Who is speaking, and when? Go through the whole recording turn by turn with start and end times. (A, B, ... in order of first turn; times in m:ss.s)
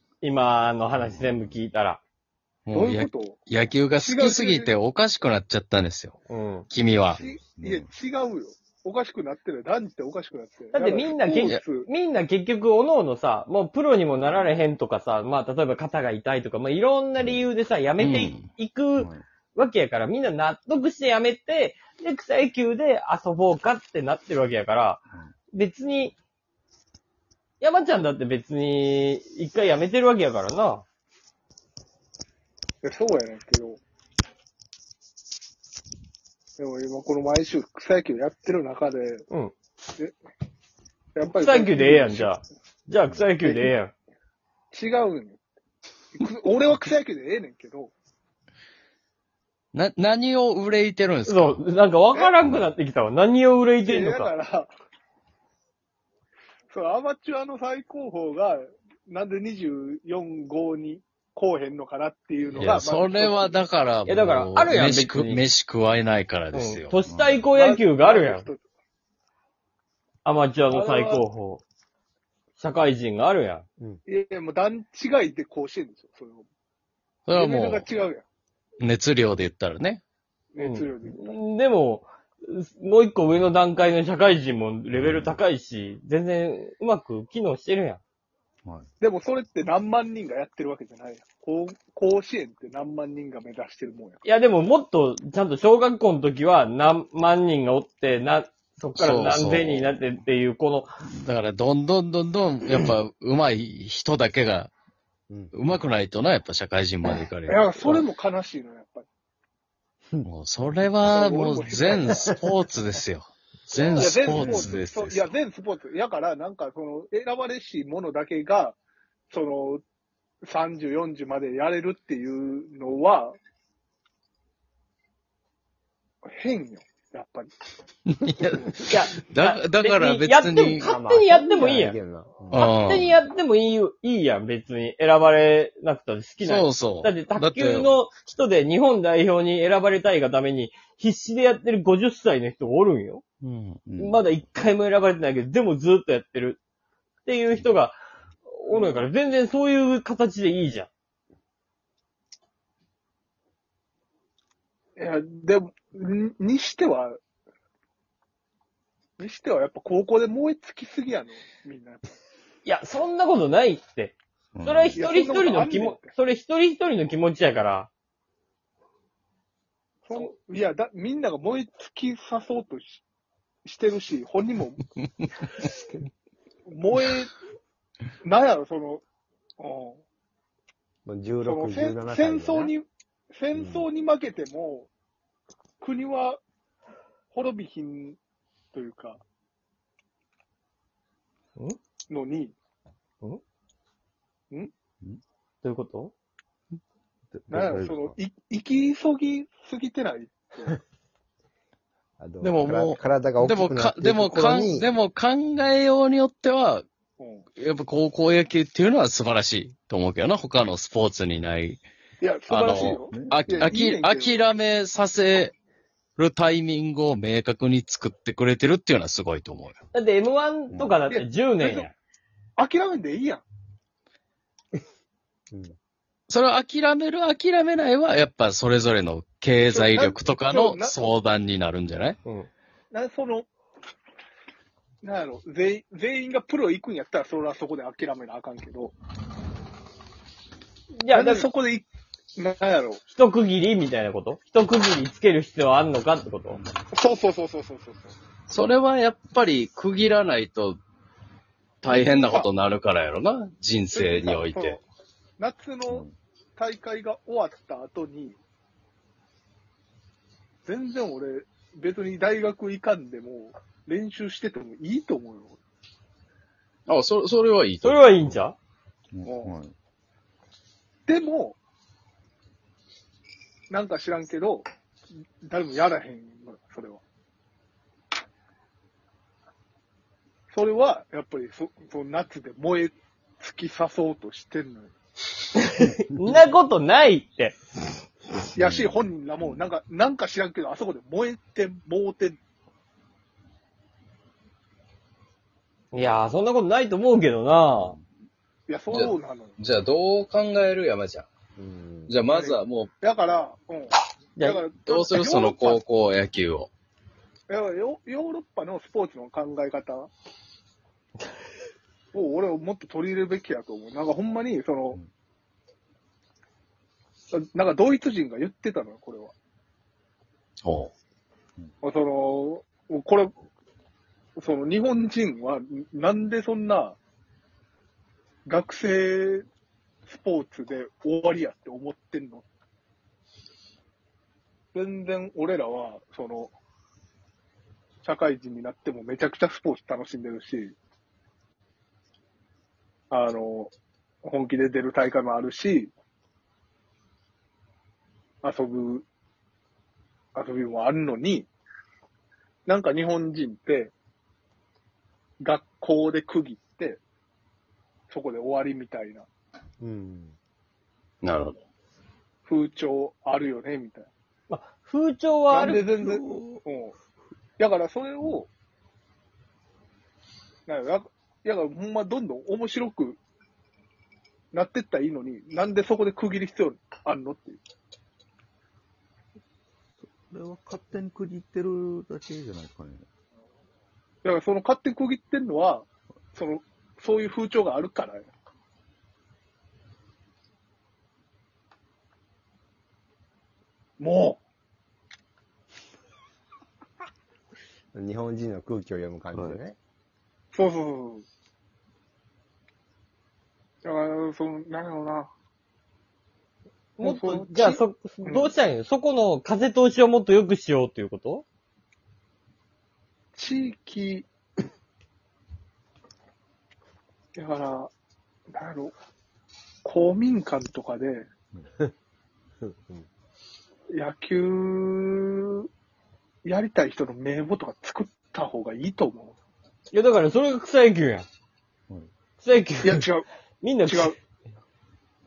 0:00.2-0:02.0 A
0:02.7-0:06.2 B
0:02.7-0:03.4 C
0:04.0-0:04.7 C
0:06.3-0:06.7 A
0:06.7-0:07.2 B
0:07.0-0:11.9 C
0:07.2-0:07.9 D
0:10.7-0:25.0 A
0:18.0-0:18.5 B
0:25.5-0:26.2 A
0:27.6-0:30.8 A
0:32.8-0:33.8 C
0:36.6-0:39.2 C
0:41.2-0:42.3 C
0:41.3-0:43.9 A
0:43.4-0:43.7 C
0:44.7-0:45.4 C
0:46.2-0:47.9 C
0:49.7-0:51.6 B
0:51.3-0:54.3 A
0:53.8-0:54.7 C
0:56.7-1:03.6 C
1:02.6-1:07.0 B
1:04.1-1:05.5 A
1:06.5-1:08.5 A
1:07.0-1:07.4 D
1:07.5-1:08.6 C
1:10.2-1:11.6 A
1:10.7-1:11.2 C
1:12.6-1:13.6 A
1:14.1-1:16.5 C
1:17.3-1:17.9 B
1:17.3-1:18.2 C
1:18.8-1:20.0 B
1:20.5-1:21.4 C
1:20.6-1:28.0 A
1:29.0-1:34.2 C
1:34.2-1:40.9 A
1:39.0-1:39.9 B
1:41.1-1:44.7 B
1:45.5-1:47.9 B
1:47.5-1:49.1 C
1:50.2-1:55.3 B
1:51.0-1:52.2 C
1:53.7-1:58.8 C
1:54.2-1:54.7 D
1:59.3-1:59.8 C
2:00.4-2:03.4 C
2:06.2-2:07.5 C
2:08.1-2:10.9 B
2:08.9-2:12.0 A
2:10.8-2:12.7 E
2:12.5-2:13.2 B
2:12.6-2:23.2 A
2:16.4-2:17.9 B
2:23.4-2:23.8 B
2:23.9-2:24.2 D
2:24.0-2:26.6 A
2:27.2-2:30.9 A
2:28.7-2:29.0 C
2:35.0-2:37.2 C
2:39.2-2:42.1 C
2:42.6-2:47.9 A
2:44.6-2:45.0 D
2:45.0-2:46.2 C
2:50.0-2:53.0 C
2:53.6-2:54.8 C
2:55.6-2:56.0 E
2:56.7-2:57.3 C
2:58.2-2:59.0 C
2:59.6-3:00.0 C
3:01.1-3:02.7 E
3:01.4-3:04.9 C
3:03.6-3:03.8 E
3:05.8-3:06.4 C
3:07.3-3:08.2 C
3:08.7-3:09.2 C
3:12.1-3:12.6 C
3:15.6-3:16.1 A
3:17.3-3:18.2 D
3:17.5-3:20.8 C
3:22.2-3:24.9 E
3:22.4-3:26.9 B
3:27.2-3:27.5 C
3:27.6-3:31.8 B
3:32.2-3:34.4 C
3:32.5-3:35.6 B
3:36.2-3:39.8 B
3:39.9-3:41.9 A
3:41.1-3:41.9 C
3:42.6-3:43.4 C
3:46.3-3:52.2 B
3:49.7-3:51.2 C
3:52.9-3:53.5 C
3:55.0-3:59.0 C
4:01.0-4:01.5 A
4:01.1-4:03.0 C
4:03.1-4:06.6 A
4:06.9-4:08.1 C
4:08.5-4:10.8 B
4:11.8-4:14.8 B
4:12.2-4:12.5 C
4:13.9-4:14.8 C
4:15.4-4:16.1 C
4:16.6-4:18.4 C
4:20.7-4:25.6 C
4:26.9-4:28.3 B
4:27.8-4:28.6 A
4:29.1-4:29.7 D
4:29.2-4:29.5 C
4:31.1-4:31.6 C
4:33.7-4:34.7 C
4:35.4-4:37.0 C
4:40.5-4:44.9 C
4:45.6-4:47.6 A
4:48.6-4:52.4 C
4:48.6-4:49.4 D
4:55.9-4:58.0 A
4:58.7-4:59.6 C
4:58.9-5:01.3 B
5:01.6-5:02.2 E
5:02.1-5:02.9 B
5:02.3-5:05.8 C
5:04.4-5:04.6 A
5:04.8-5:06.7 B
5:07.5-5:10.1 C
5:12.1-5:15.0 C
5:17.3-5:19.3 C
5:20.6-5:20.9 B
5:21.8-5:23.3 C
5:24.4-5:27.0 C
5:28.5-5:29.5 C
5:30.1-5:32.5 C
5:34.7-5:36.5 C
5:38.0-5:40.8 C
5:43.1-5:43.7 C
5:44.2-5:45.9 C
5:48.4-5:49.1 C
5:50.4-5:51.5 C
5:52.7-5:53.9 C
5:55.4-5:57.0 C
5:58.1-5:59.3 C
5:59.8-6:00.4 E
6:01.2-6:01.6 B
6:02.5-6:04.1 C
6:04.5-6:05.9 A
6:05.5-6:07.0 C
6:06.1-6:06.6 D
6:07.6-6:08.5 C
6:10.7-6:13.2 C
6:14.5-6:17.6 C
6:20.0-6:23.0 D
6:24.2-6:28.3 C
6:34.0-6:34.4 C
6:37.9-6:39.8 E
6:39.3-6:39.6 D
6:40.5-6:41.2 C
6:43.8-6:45.3 C
6:47.0-6:51.4 A
6:47.0-6:48.5 C
6:53.4-6:54.3 C
6:57.4-6:57.9 C
6:58.5-6:59.0 C
6:59.8-7:01.3 C
7:02.6-7:03.1 E
7:03.9-7:05.7 C
7:06.4-7:09.3 C
7:09.9-7:11.3 A
7:12.4-7:13.0 A
7:12.8-7:13.3 C
7:13.6-7:14.2 A
7:13.8-7:14.2 C